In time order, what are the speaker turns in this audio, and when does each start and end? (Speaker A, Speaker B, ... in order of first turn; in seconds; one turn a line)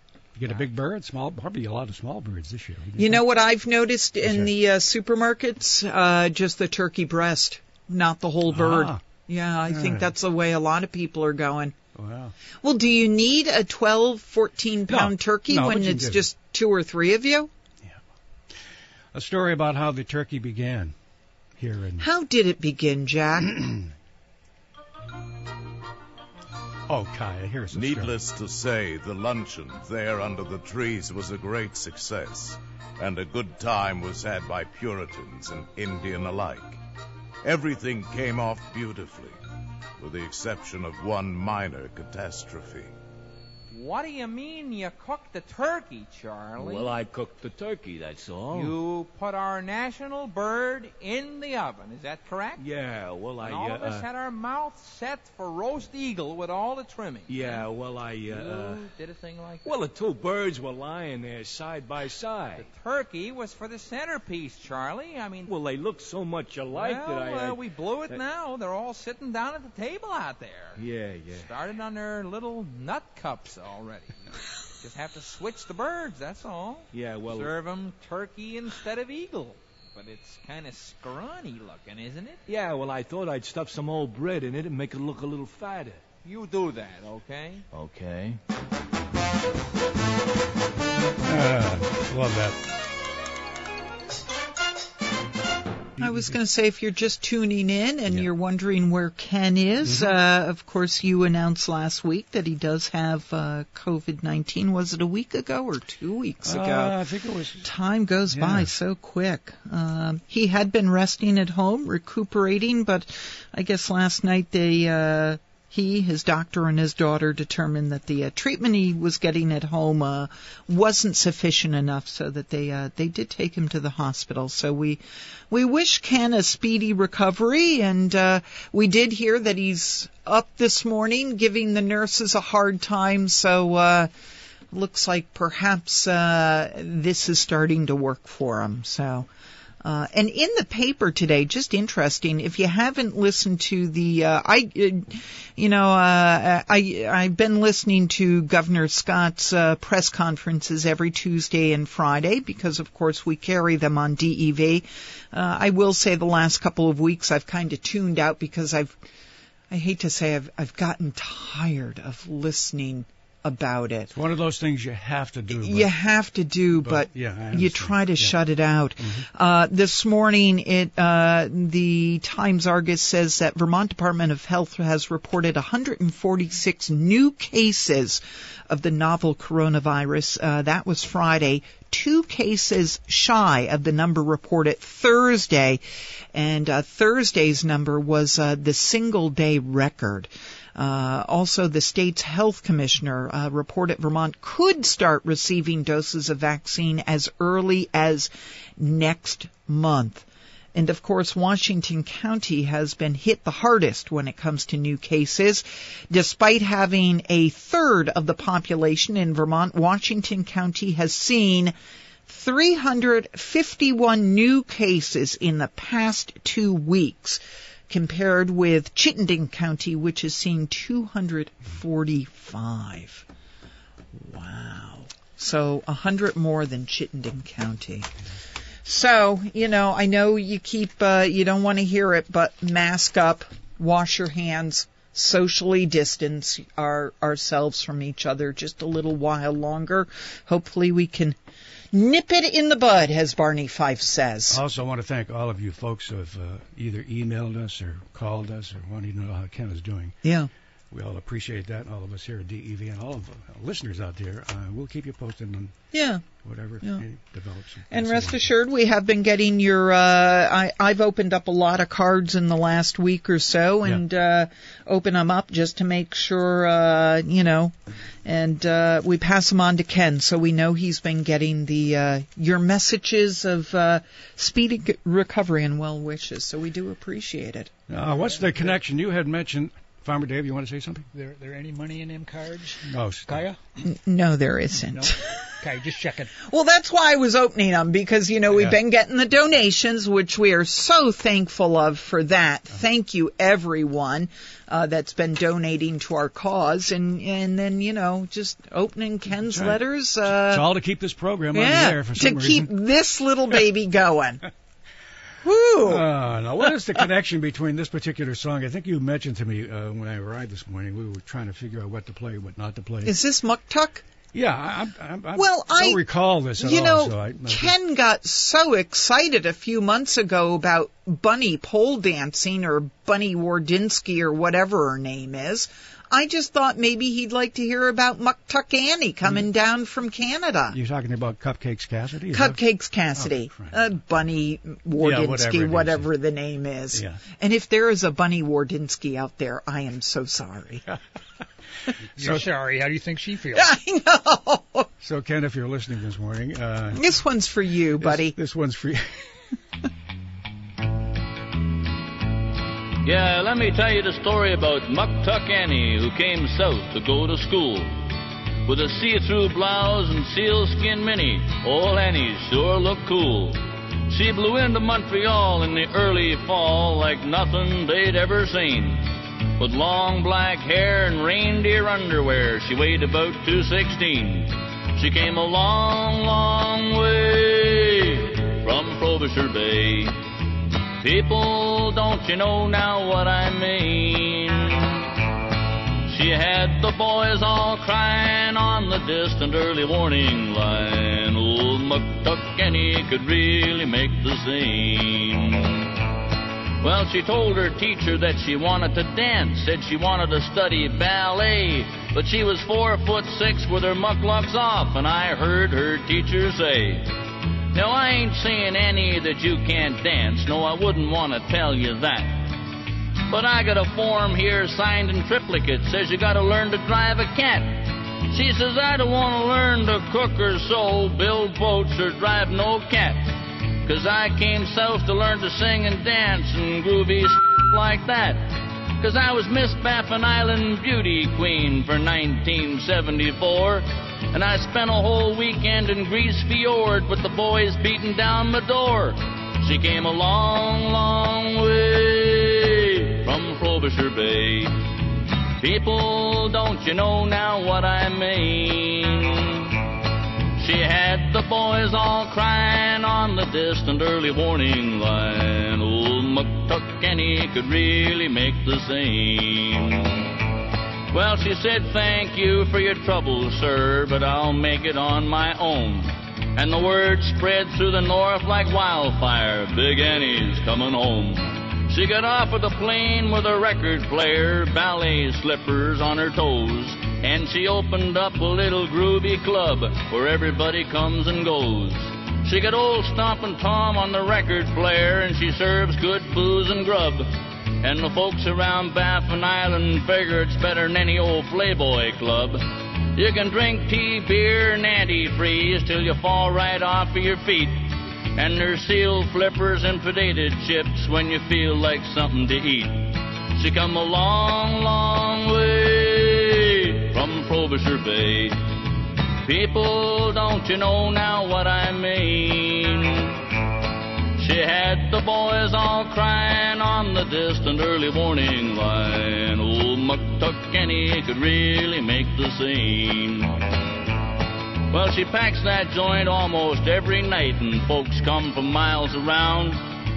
Speaker A: 0.3-3.2
Speaker B: 3.0-11.8
Speaker A: 4.2-4.5
Speaker A: 8.5-9.0
Speaker A: 9.7-10.1
Speaker A: 11.9-12.3
Speaker B: 12.6-17.5
Speaker A: 14.9-16.3
Speaker A: 19.1-20.9
Speaker A: 21.6-22.1
Speaker B: 22.0-23.7
Speaker A: 23.6-23.9
Speaker A: 26.9-28.1
Speaker C: 27.7-36.8
Speaker C: 37.5-39.4
Speaker C: 40.0-42.9
Speaker D: 43.7-47.0
Speaker E: 46.6-48.8
Speaker D: 48.5-52.7
Speaker E: 52.6-54.1
Speaker D: 53.4-57.7
Speaker E: 57.3-58.8
Speaker D: 58.3-59.8
Speaker E: 59.6-62.7
Speaker D: 62.6-65.5
Speaker E: 65.5-68.2
Speaker D: 66.7-74.2
Speaker E: 70.8-71.5
Speaker D: 74.8-82.4
Speaker E: 76.9-77.6
Speaker E: 82.5-86.0
Speaker D: 86.2-87.7
Speaker E: 87.7-88.4
Speaker A: 91.3-92.6
Speaker B: 96.0-107.0
Speaker A: 99.8-100.1
Speaker A: 106.4-107.7
Speaker B: 107.7-134.1
Speaker A: 108.3-108.7
Speaker B: 134.7-139.3
Speaker B: 139.8-159.0
Speaker B: 159.7-164.1
Speaker A: 164.1-165.9
Speaker B: 165.5-185.8
Speaker A: 166.8-168.4
Speaker A: 169.0-169.2
Speaker B: 186.3-211.7
Speaker B: 212.3-223.2
Speaker B: 224.2-228.1
Speaker B: 228.8-241.4
Speaker B: 241.9-244.6
Speaker A: 244.5-250.2
Speaker B: 250.2-250.5
Speaker A: 250.9-255.8
Speaker B: 255.9-256.2
Speaker A: 256.3-258.5
Speaker B: 257.9-277.7
Speaker A: 277.9-281.1
Speaker F: 278.4-278.7
Speaker F: 281.1-283.6
Speaker A: 282.8-283.4
Speaker B: 283.8-285.2
Speaker F: 284.9-286.3
Speaker B: 286.4-300.7
Speaker A: 288.5-288.8
Speaker A: 299.4-302.7
Speaker B: 301.5-304.4
Speaker B: 305.4-306.1
Speaker A: 305.8-313.1
Speaker B: 313.1-314.0
Speaker A: 314.3-317.7
Speaker B: 315.4-316.0
Speaker B: 316.6-330.8
Speaker A: 330.7-332.6
Speaker B: 332.3-340.8
Speaker A: 333.2-333.9
Speaker A: 335.0-336.1
Speaker A: 336.9-337.2
Speaker A: 342.2-342.5
Speaker F: 342.2-343.7
Speaker B: 343.5-344.9
Speaker A: 345.0-347.0
Speaker B: 347.0-348.4
Speaker A: 348.0-349.3
Speaker G: 353.0-358.0
Speaker G: 358.6-380.2
Speaker G: 381.0-385.0
Speaker G: 386.1-395.9
Speaker G: 396.8-407.1
Speaker G: 407.7-412.5
Speaker G: 413.3-423.3
Speaker G: 423.8-444.8
Speaker G: 445.6-449.7
Speaker G: 450.6-460.3
Speaker G: 461.1-487.3
Speaker G: 487.8-492.6
Speaker G: 493.1-508.6
Speaker G: 509.4-513.3
Speaker G: 514.4-523.6
Speaker G: 524.9-529.8